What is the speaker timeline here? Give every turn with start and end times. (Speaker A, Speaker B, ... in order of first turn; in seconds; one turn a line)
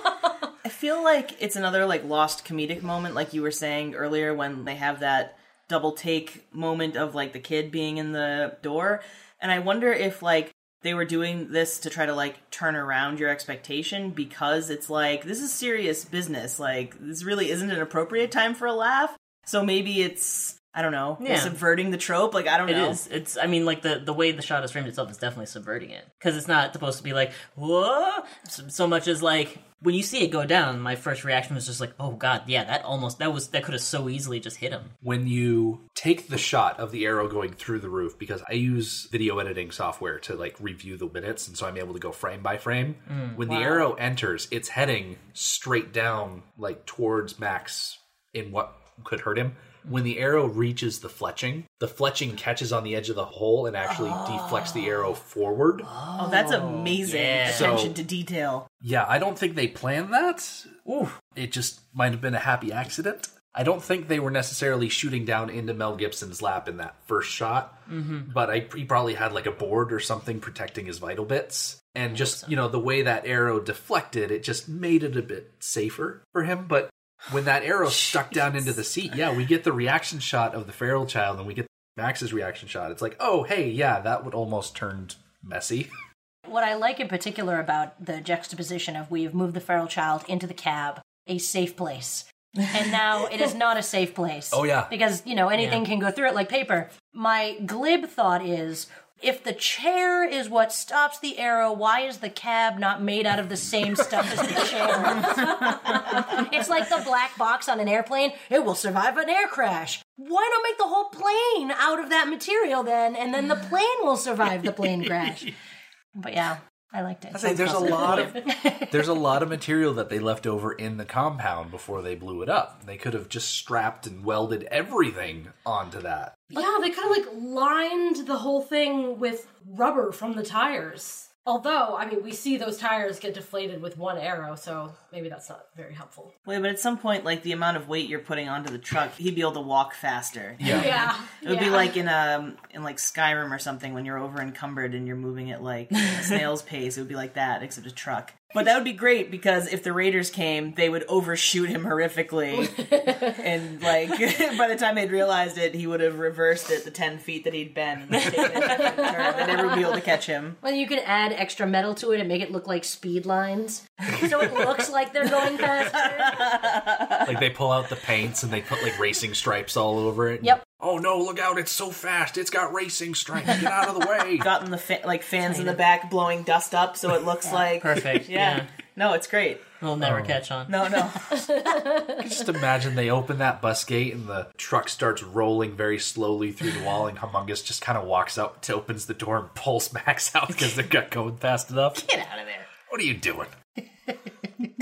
Speaker A: 0.6-23.0
Speaker B: 21.2-21.6
Speaker B: 22.6-34.9
Speaker C: 35.0-55.9
Speaker B: 43.1-43.9
Speaker D: 54.1-54.5
Speaker B: 55.8-57.9
Speaker A: 56.2-58.7
Speaker C: 57.4-58.0
Speaker C: 58.8-60.7
Speaker B: 60.9-61.1
Speaker C: 61.3-85.9
Speaker B: 67.9-68.3
Speaker B: 72.1-72.5
Speaker D: 86.4-115.5
Speaker C: 94.5-94.9
Speaker B: 95.6-95.8
Speaker D: 116.1-119.2
Speaker C: 117.3-126.4
Speaker E: 126.5-136.3
Speaker A: 136.4-160.6
Speaker C: 140.6-140.9
Speaker E: 140.6-142.0
Speaker E: 152.5-153.4
Speaker B: 158.1-159.3
Speaker E: 158.8-159.6
Speaker D: 160.6-166.6
Speaker A: 166.1-167.3
Speaker C: 167.2-174.5
Speaker A: 174.4-179.7
Speaker B: 175.4-175.8
Speaker B: 177.8-178.7
Speaker B: 179.8-181.1
Speaker C: 180.0-180.4
Speaker A: 180.7-181.5
Speaker E: 181.3-182.2
Speaker C: 182.0-192.0
Speaker B: 191.9-192.7
Speaker C: 192.9-193.5